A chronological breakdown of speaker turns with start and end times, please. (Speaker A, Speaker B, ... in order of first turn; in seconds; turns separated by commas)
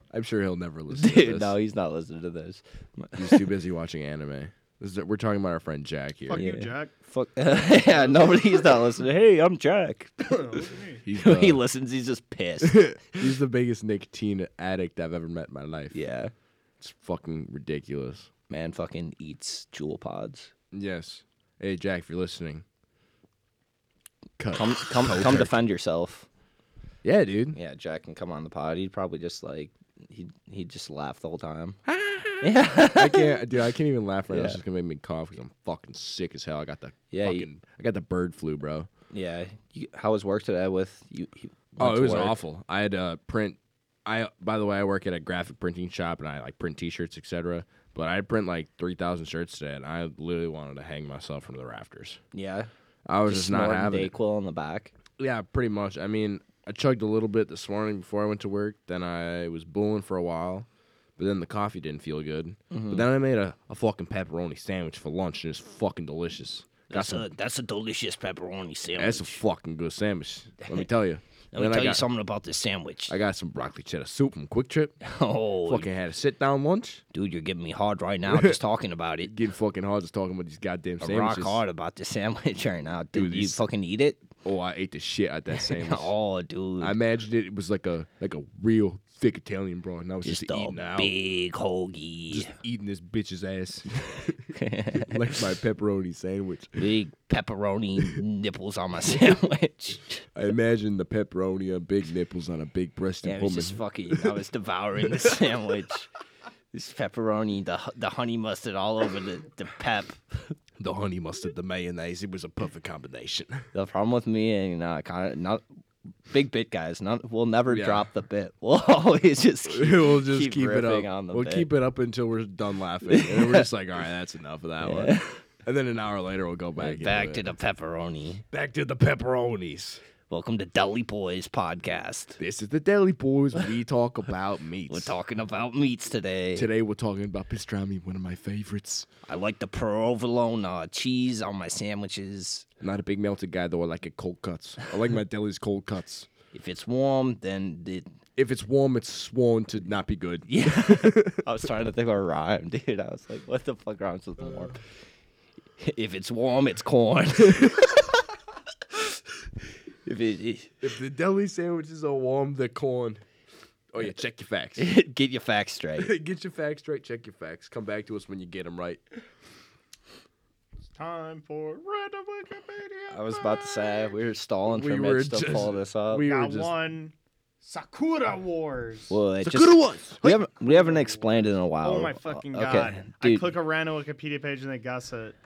Speaker A: 0.1-1.6, Speaker B: 0.9-3.5, Speaker A: 3.1-6.5, Speaker C: 6.2-6.9, Speaker B: 6.3-13.3, Speaker C: 7.6-8.6, Speaker C: 10.2-11.0, Speaker A: 11.1-11.6, Speaker A: 12.6-16.0, Speaker B: 15.9-16.3, Speaker A: 16.8-18.3, Speaker B: 18.5-20.5, Speaker A: 20.7-22.6, Speaker A: 24.4-25.6, Speaker B: 24.5-26.3, Speaker A: 27.0-27.6, Speaker B: 27.5-31.8, Speaker A: 31.9-38.9, Speaker B: 32.4-33.4, Speaker B: 34.3-34.6, Speaker B: 37.1-37.5, Speaker B: 39.1-42.4, Speaker A: 41.8-52.2, Speaker B: 52.3-52.7, Speaker A: 53.0-54.1, Speaker B: 53.2-54.9, Speaker A: 55.2-67.2, Speaker B: 62.7-63.0, Speaker B: 66.9-69.4, Speaker A: 69.0-72.0, Speaker B: 71.5-73.2, Speaker A: 73.1-75.0, Speaker B: 75.0-75.9, Speaker A: 75.6-77.0, Speaker B: 77.1-79.3, Speaker A: 78.3-78.6, Speaker A: 79.2-81.6, Speaker B: 81.0-84.2, Speaker A: 83.1-83.6, Speaker A: 84.4-86.1, Speaker B: 85.5-87.0, Speaker A: 86.8-91.2, Speaker B: 90.2-92.5, Speaker A: 92.3-94.4, Speaker B: 94.5-95.4, Speaker A: 95.0-96.9, Speaker B: 96.8-100.2, Speaker A: 100.3-104.4, Speaker B: 103.2-106.1, Speaker B: 106.7-110.6, Speaker A: 110.8-113.6, Speaker B: 113.7-115.6, Speaker B: 116.3-121.7, Speaker A: 117.7-118.0, Speaker A: 119.7-127.4, Speaker B: 123.0-123.7, Speaker B: 124.8-125.4, Speaker B: 126.8-128.4, Speaker A: 128.5-130.0, Speaker B: 130.3-132.4, Speaker A: 132.4-135.2, Speaker B: 134.9-136.7, Speaker A: 136.5-139.1, Speaker B: 139.2-142.7, Speaker A: 142.8-146.3, Speaker B: 146.5-148.1, Speaker A: 148.4-151.4, Speaker B: 150.5-154.8, Speaker B: 155.8-158.2, Speaker B: 158.9-159.2, Speaker B: 160.0-160.8, Speaker A: 160.8-163.2, Speaker A: 163.9-164.9, Speaker B: 164.8-166.1, Speaker A: 166.0-169.0, Speaker C: 170.9-174.2, Speaker B: 173.1-176.3, Speaker A: 174.7-176.7, Speaker C: 176.2-179.2, Speaker B: 179.1-183.5, Speaker A: 179.4-180.2, Speaker C: 180.2-185.4